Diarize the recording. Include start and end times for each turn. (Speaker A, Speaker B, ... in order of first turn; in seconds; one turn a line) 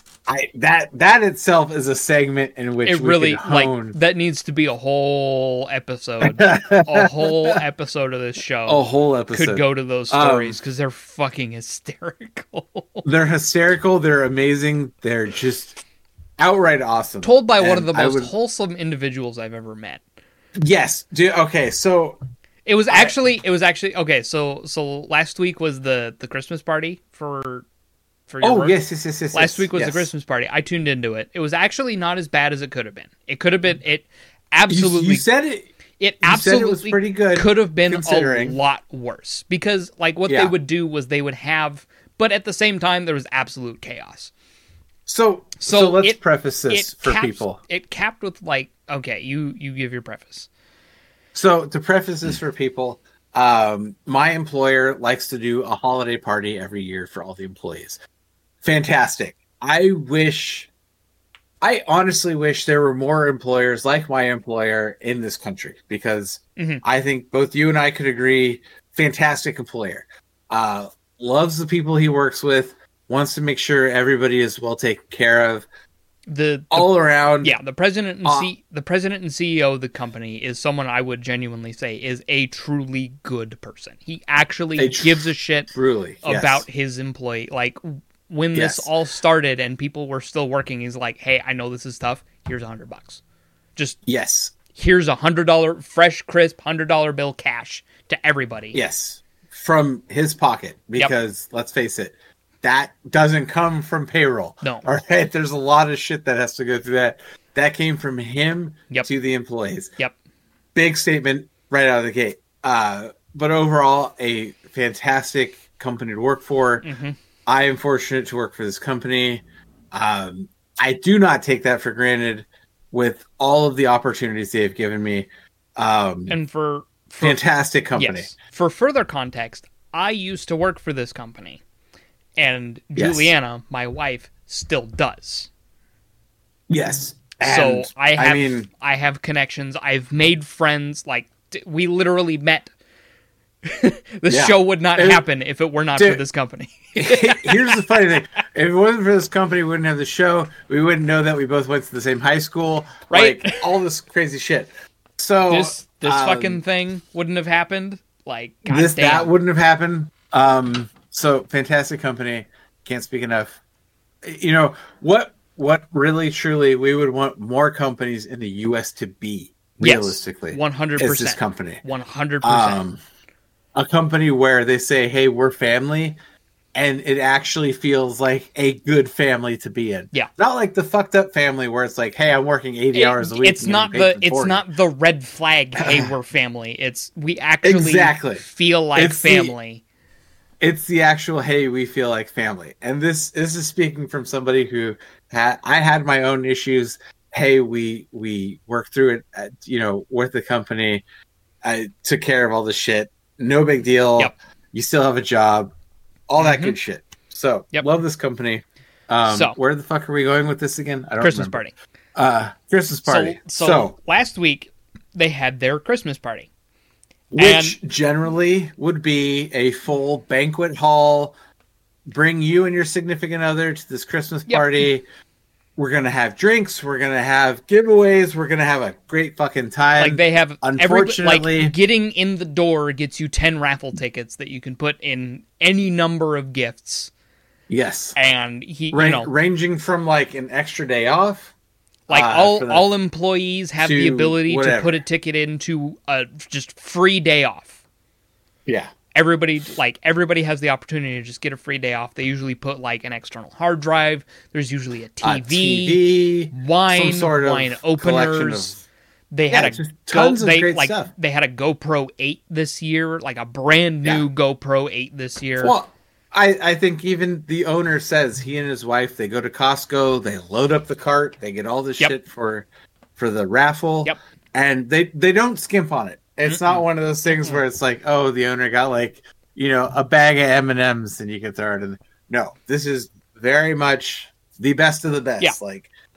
Speaker A: 0.3-3.9
Speaker B: 2.8-13.1
Speaker A: 6.2-7.6
Speaker A: 8.7-10.6
Speaker A: 13.0-15.8
Speaker A: 16.4-18.3
Speaker B: 17.2-20.0
Speaker A: 20.6-22.2
Speaker B: 22.6-27.6
Speaker B: 28.3-28.8
Speaker A: 28.4-30.1
Speaker B: 29.3-35.2
Speaker A: 34.7-35.7
Speaker B: 36.0-44.3
Speaker A: 36.2-38.6
Speaker A: 40.3-40.5
Speaker A: 45.0-47.6
Speaker B: 45.6-46.2
Speaker B: 46.7-50.5
Speaker A: 51.3-58.0
Speaker A: 58.6-60.7
Speaker A: 61.6-75.7
Speaker B: 66.6-66.8
Speaker B: 76.3-76.9
Speaker A: 76.7-77.5
Speaker B: 77.4-85.7
Speaker A: 78.2-78.5
Speaker A: 84.8-86.6
Speaker B: 86.2-93.2
Speaker A: 88.5-88.9
Speaker A: 94.0-94.5
Speaker B: 94.7-98.8
Speaker A: 98.7-109.9
Speaker A: 110.7-116.9
Speaker B: 116.8-117.2
Speaker A: 117.5-126.3
Speaker B: 126.3-127.4
Speaker A: 127.2-128.3
Speaker B: 128.0-131.6
Speaker B: 132.4-135.5
Speaker A: 132.9-133.3
Speaker A: 136.7-138.7
Speaker B: 137.4-142.7
Speaker B: 143.6-147.8
Speaker A: 144.3-145.2
Speaker A: 146.0-146.2
Speaker A: 146.9-156.6
Speaker B: 153.1-153.6
Speaker B: 155.5-159.3
Speaker A: 158.7-163.6
Speaker A: 164.2-171.8
Speaker B: 169.8-172.8
Speaker A: 172.4-173.0
Speaker A: 173.7-176.2
Speaker A: 176.7-184.6
Speaker B: 182.9-189.8
Speaker A: 185.8-186.1
Speaker A: 187.6-188.4
Speaker A: 188.9-189.5
Speaker A: 190.6-201.0
Speaker A: 201.6-205.7
Speaker A: 206.3-211.6
Speaker B: 206.4-206.8
Speaker B: 209.2-209.6
Speaker B: 211.2-211.7
Speaker A: 212.1-213.9
Speaker B: 213.1-216.5
Speaker A: 217.3-221.3
Speaker B: 217.4-217.8
Speaker A: 222.1-225.0
Speaker B: 224.5-224.8
Speaker A: 225.8-231.7
Speaker B: 230.0-237.1
Speaker A: 237.7-238.1
Speaker B: 238.2-239.3
Speaker A: 238.9-241.5
Speaker B: 242.1-247.8
Speaker A: 242.1-242.9
Speaker A: 243.8-245.0
Speaker A: 248.7-248.9
Speaker B: 249.1-256.0
Speaker A: 255.2-258.8
Speaker B: 256.5-258.8
Speaker B: 259.3-265.8
Speaker A: 259.5-261.1
Speaker A: 265.6-285.9
Speaker B: 276.5-276.8